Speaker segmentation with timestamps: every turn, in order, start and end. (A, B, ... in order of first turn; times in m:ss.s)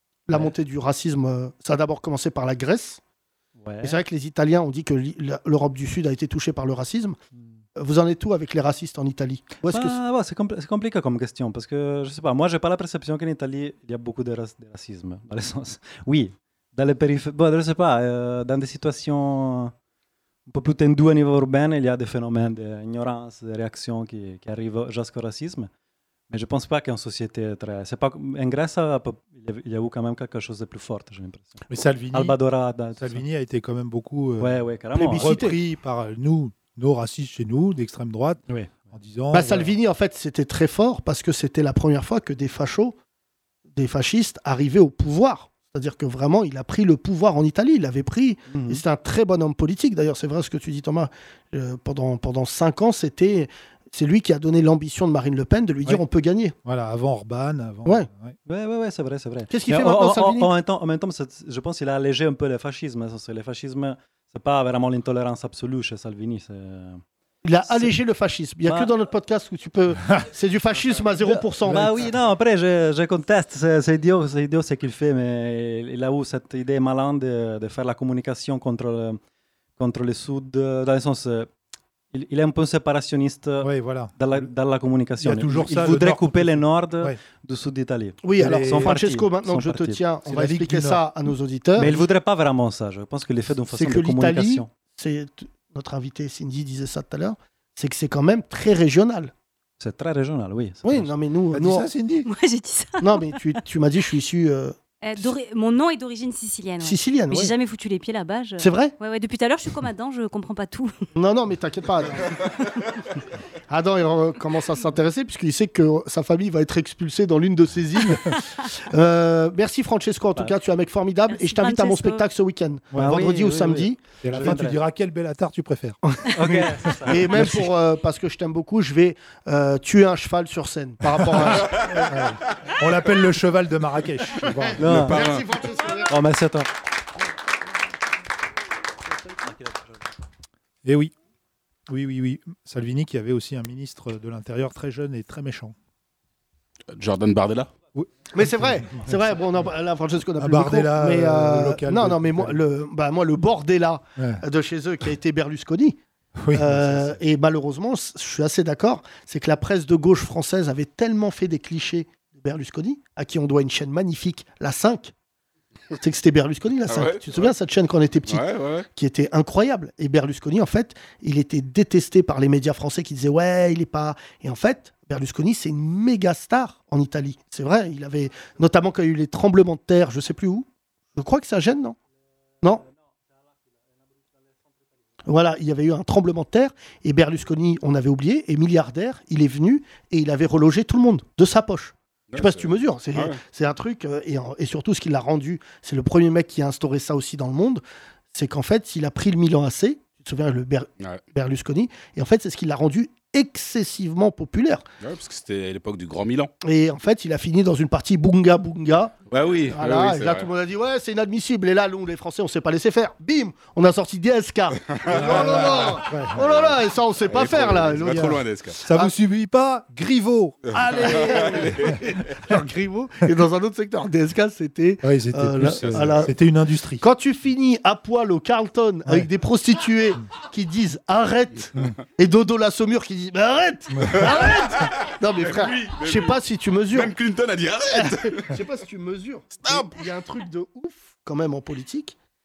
0:00.3-0:03.0 A
0:03.6-0:04.0 B
0:03.8-0:07.2 A
0:07.8-0:10.0 A
0:09.6-0:19.7 B
0:20.5-0:25.7 B
0:26.3-0:33.2 B
0:31.7-0:32.4 C
0:33.0-0:39.7 C
0:34.4-0:35.4 B
0:34.9-0:35.6 A
0:38.5-0:38.8 B
0:39.3-0:43.0 A
0:43.7-0:56.6 A
0:48.5-0:48.8 B
0:56.6-0:58.4 C
0:58.4-1:07.0 B
0:59.5-1:00.5 A
1:07.4-1:12.0 A
1:07.7-1:07.9 B
1:08.6-1:08.9 B
1:11.2-1:19.2 B
1:19.8-1:21.5 B
1:22.1-1:30.0 B
1:23.6-1:24.4 C
1:25.2-1:27.2 C
1:28.2-1:32.0 A
1:28.4-1:29.0 C
1:30.3-1:31.0 C
1:31.8-1:34.7 B
1:33.7-1:39.3 A
1:39.8-1:41.1 B
1:40.8-1:41.9 A
1:41.5-1:42.3 C
1:42.2-1:43.4 D
1:43.0-1:45.3 A
1:45.0-1:50.9 D
1:46.8-1:47.5 A
1:48.6-1:48.9 A
1:51.1-1:52.5 A
1:53.7-2:04.0 A
2:01.3-2:02.2 D
2:02.9-2:03.4 C
2:03.0-2:04.8 B
2:04.2-2:06.0 C
2:06.1-2:12.2 A
2:06.3-2:07.7 B
2:11.1-2:15.2 C
2:14.7-2:16.2 A
2:14.8-2:15.4 B
2:14.9-2:15.4 E
2:16.0-2:16.7 B
2:20.8-2:21.1 C
2:21.9-2:25.8 C
2:26.9-2:27.7 E
2:27.9-2:28.9 C
2:28.3-2:36.0 A
2:30.4-2:32.6 C
2:34.2-2:34.4 C
2:36.4-2:37.1 C
2:36.5-2:45.1 A
2:46.0-3:02.0 A
2:46.9-2:47.5 E
2:48.3-2:48.9 E
3:05.3-3:24.9 A
3:12.3-3:13.4 E
3:25.0-3:26.5 E
3:26.6-3:29.1 A
3:29.3-3:30.5 E
3:29.7-3:39.1 A
3:34.9-3:35.9 E
3:35.1-3:36.5 C
3:37.3-3:38.8 E
3:38.0-3:40.7 C
3:40.7-3:41.9 E
3:40.7-3:46.3 A
3:45.0-3:47.0 C
3:45.8-3:46.2 E
3:47.0-3:57.1 A
3:53.9-3:54.2 C
3:55.5-3:56.4 E
3:56.9-3:58.5 E
3:57.9-4:02.1 A
3:59.6-3:59.9 E